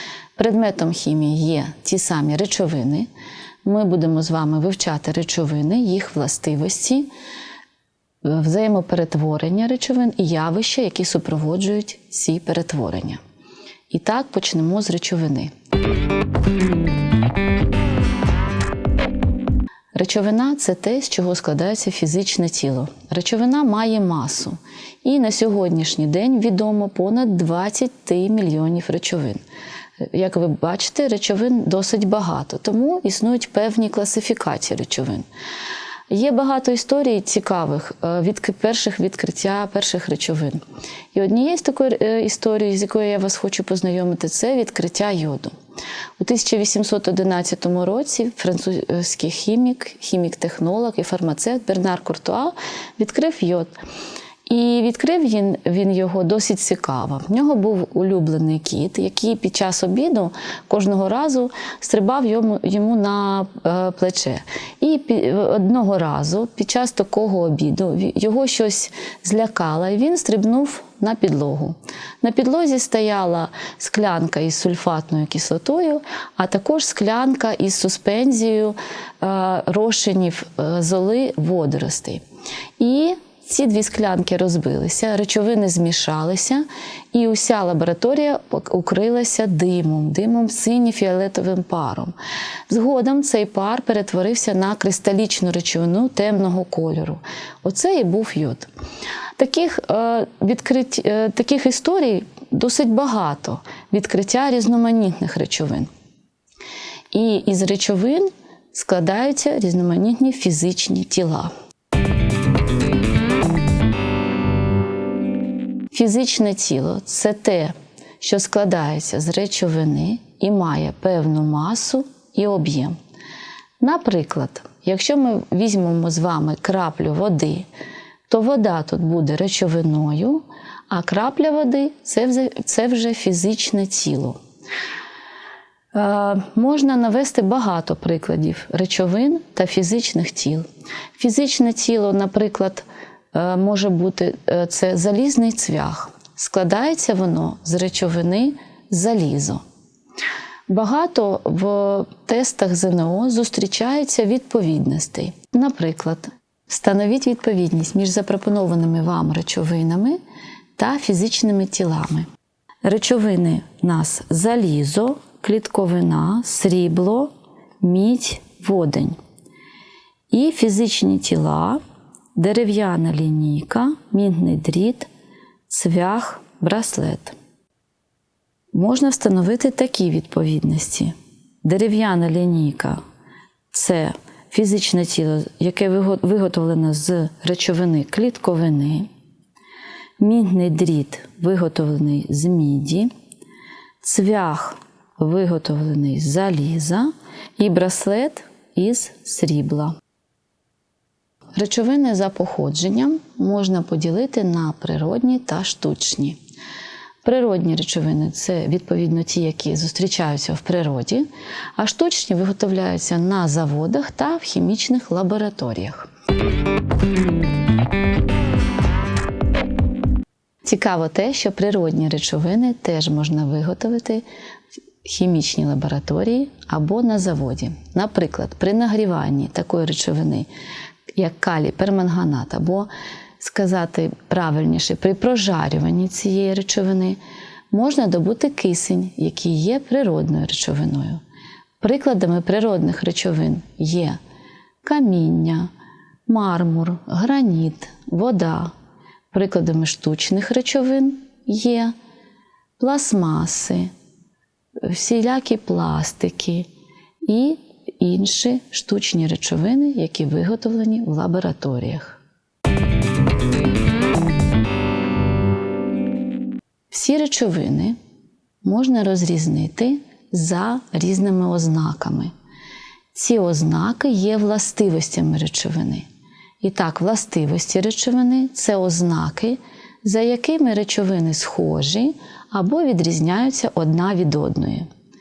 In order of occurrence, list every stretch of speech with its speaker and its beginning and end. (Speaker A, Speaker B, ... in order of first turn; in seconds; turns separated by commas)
Speaker A: 0.4-3.1, Speaker A: 3.6-7.1, Speaker A: 8.2-13.2, Speaker A: 13.9-15.5, Speaker A: 19.9-29.4, Speaker A: 30.1-35.3, Speaker A: 36.1-40.6, Speaker A: 41.1-45.5, Speaker A: 46.2-53.7, Speaker A: 54.5-82.2, Speaker A: 82.8-92.1, Speaker A: 92.7-98.7, Speaker A: 99.4-105.9, Speaker A: 107.1-111.5, Speaker A: 115.9-123.0, Speaker A: 123.8-127.7, Speaker A: 128.3-134.4, Speaker A: 135.9-149.6, Speaker A: 150.7-160.2, Speaker A: 160.8-162.3, Speaker A: 162.8-167.3, Speaker A: 167.8-169.2, Speaker A: 170.3-171.8, Speaker A: 172.4-175.1, Speaker A: 175.7-177.4, Speaker A: 178.7-183.0, Speaker A: 183.7-189.1, Speaker A: 190.2-193.1, Speaker A: 194.0-199.9, Speaker A: 201.6-206.4, Speaker A: 207.2-216.1, Speaker A: 220.7-224.2, Speaker A: 225.0-230.5, Speaker A: 231.2-232.9, Speaker A: 233.4-237.2, Speaker A: 237.7-241.2, Speaker A: 241.8-244.2, Speaker A: 244.8-245.7, Speaker A: 246.3-248.7, Speaker A: 249.3-251.9, Speaker A: 252.8-253.9, Speaker A: 254.8-256.7, Speaker A: 257.3-262.2, Speaker A: 266.9-268.0, Speaker A: 268.6-272.3, Speaker A: 273.1-276.1, Speaker A: 276.6-284.9